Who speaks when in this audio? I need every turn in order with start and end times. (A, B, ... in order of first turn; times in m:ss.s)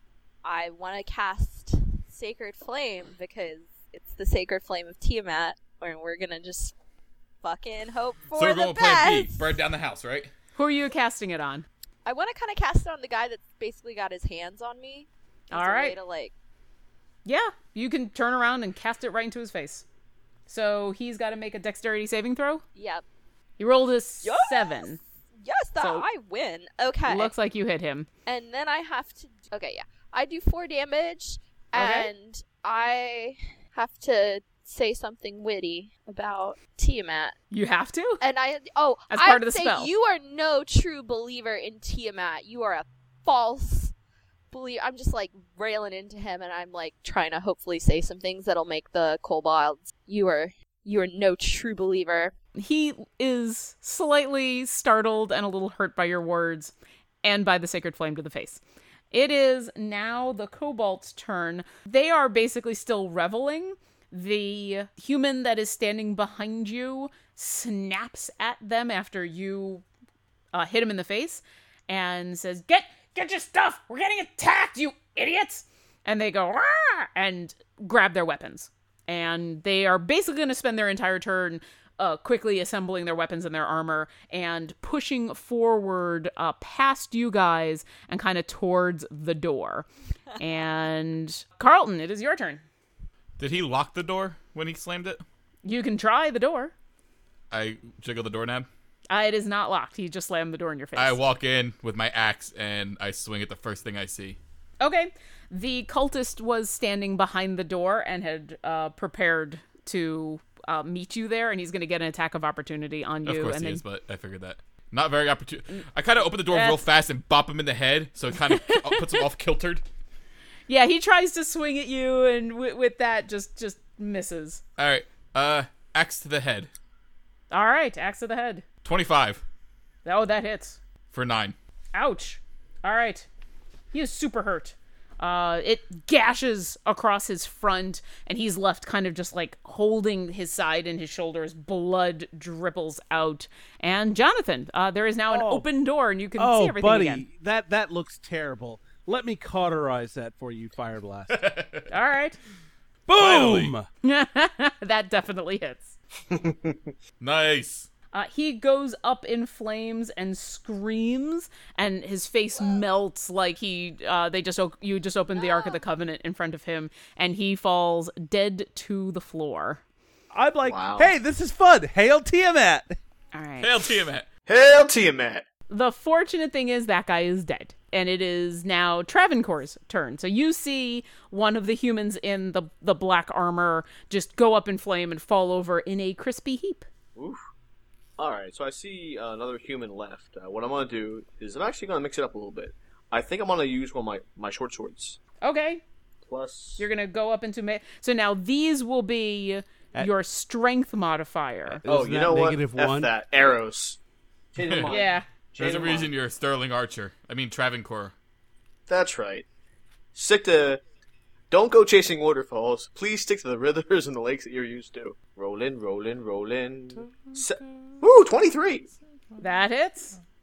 0:00.4-0:06.8 A
0:07.4-0:09.5 A
0:08.3-0:10.3 B
0:10.6-0:11.7 C
0:12.0-0:16.3 A
0:15.5-0:16.0 C
0:17.2-0:19.8 C
0:20.5-0:22.6 C
0:22.8-0:23.0 A
0:23.6-0:25.0 C
0:24.2-0:27.3 A
0:25.8-0:26.1 C
0:27.1-0:28.1 C
0:28.3-0:37.4 A
0:31.8-0:32.1 C
0:37.5-0:38.2 C
0:38.2-0:43.9 A
0:39.1-0:39.9 C
0:44.5-0:52.3 A
0:52.6-0:58.6 C
0:59.1-1:09.8 C
1:10.5-1:32.6 C
1:33.4-1:35.2 B
1:35.6-1:36.7 C
1:37.5-1:38.7 B
1:39.1-1:41.2 C
1:41.0-1:44.4 B
1:44.8-1:53.8 C
1:53.2-1:59.8 B
1:56.5-1:56.9 C
1:58.5-1:59.2 C
2:00.7-2:04.6 C
2:04.8-2:06.7 B
2:07.5-2:08.6 C
2:08.8-2:09.4 B
2:10.0-2:10.8 C
2:11.1-2:11.6 B
2:11.9-2:13.3 C
2:13.9-2:27.2 C
2:25.3-2:25.7 D
2:26.4-2:31.4 D
2:31.3-2:31.9 B
2:31.9-2:32.4 C
2:33.1-2:33.9 D
2:33.2-2:33.7 B
2:34.0-2:36.0 C
2:36.3-2:36.9 E
2:37.2-2:37.9 B
2:38.1-2:49.8 C
2:45.3-2:45.8 A
2:50.3-2:53.0 D
2:50.6-2:51.1 E
2:53.3-2:53.9 C
2:53.6-2:54.3 B
2:54.5-2:55.4 E
2:55.7-3:06.9 C
3:08.2-3:15.2 E
3:15.4-3:15.8 C
3:16.3-3:16.8 E
3:16.8-3:21.8 C
3:21.8-3:23.1 D
3:21.8-3:24.0 E
3:24.6-3:26.1 E
3:24.6-3:24.9 B
3:24.9-3:25.2 C
3:25.6-3:28.1 B
3:28.9-3:29.5 E
3:30.2-3:30.8 E
3:31.5-3:38.9 E
3:39.4-3:40.2 C